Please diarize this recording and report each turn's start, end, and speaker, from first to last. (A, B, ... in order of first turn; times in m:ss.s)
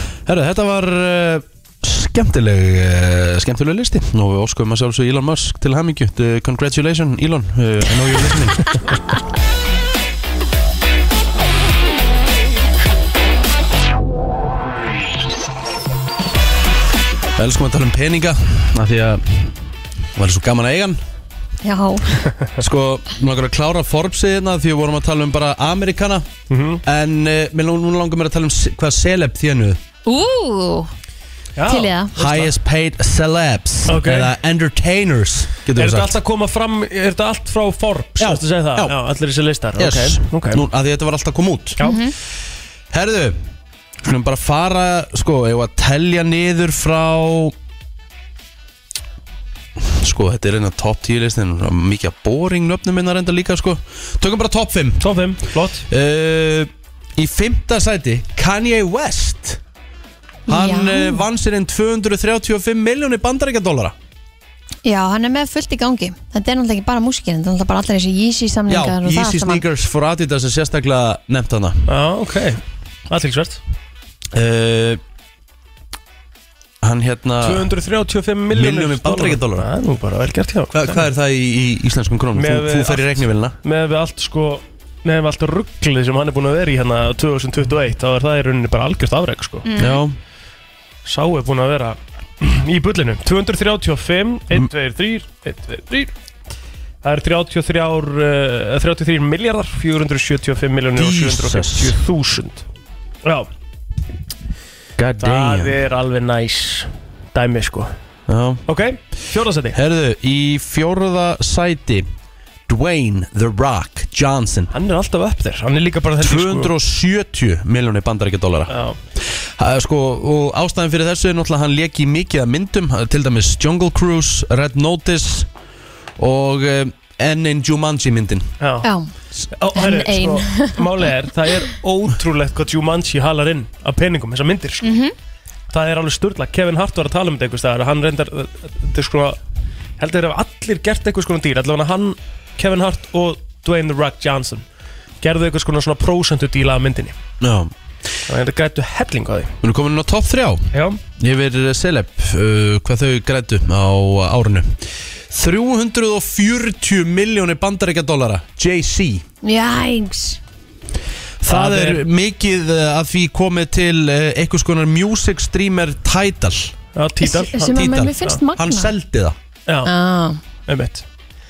0:00.2-0:08.8 A
0:17.4-0:19.6 A
0:20.1-0:21.0 A
0:21.6-0:22.3 B
0:22.6-0:26.3 A
0:26.5-0:26.8 C
0:26.8-0:29.8 A
0:30.0-0:30.9 B
0:31.6-0:32.5 C
0:31.6-0:32.1 B
0:32.2-0:36.1 A
0:33.9-0:34.3 C
0:35.8-0:40.6 C
0:38.2-0:39.0 A
0:39.8-0:41.8 A
0:41.8-0:42.1 B
0:42.9-0:43.4 A
0:44.0-0:47.5 A
0:49.8-0:55.1 A
0:55.0-0:55.8 C
0:55.9-0:59.6 A
1:00.5-1:01.2 B
1:00.5-1:03.9 A
1:04.8-1:09.6 B
1:08.7-1:11.9 A
1:11.9-1:13.6 C
1:14.3-1:15.0 A
1:16.8-1:17.7 A
1:17.4-1:21.0 C
1:18.5-1:19.7 A
1:20.7-1:23.6 A
1:22.3-1:29.7 C
1:29.6-1:30.0 B
1:29.8-1:30.2 A
1:31.0-1:36.1 C
1:37.0-1:42.6 C
1:41.0-1:42.0 A
1:43.2-1:43.5 C
1:45.0-1:45.8 A
1:45.2-1:47.9 C
1:48.3-1:48.6 A
1:48.7-1:49.8 C
1:49.7-1:52.0 A
1:52.7-1:54.7 A
1:54.7-1:56.7 C
1:56.2-2:05.5 A
1:58.7-1:59.0 C
2:06.2-2:08.5 A
2:08.6-2:08.9 C
2:08.8-2:09.1 B
2:09.6-2:14.9 C
2:09.7-2:11.1 B
2:14.8-2:15.1 B
2:15.7-2:19.4 C
2:20.0-2:24.6 C
2:25.2-2:27.1 C
2:27.4-2:27.7 A
2:28.3-2:29.5 C
2:29.6-2:39.2 A
2:30.7-2:31.0 C
2:39.4-2:40.4 B
2:41.4-2:46.7 A
2:41.5-2:42.0 C
2:46.9-2:48.4 C
2:47.2-2:48.9 B
2:47.7-2:49.4 A
2:49.8-2:50.4 B
2:50.6-2:51.0 C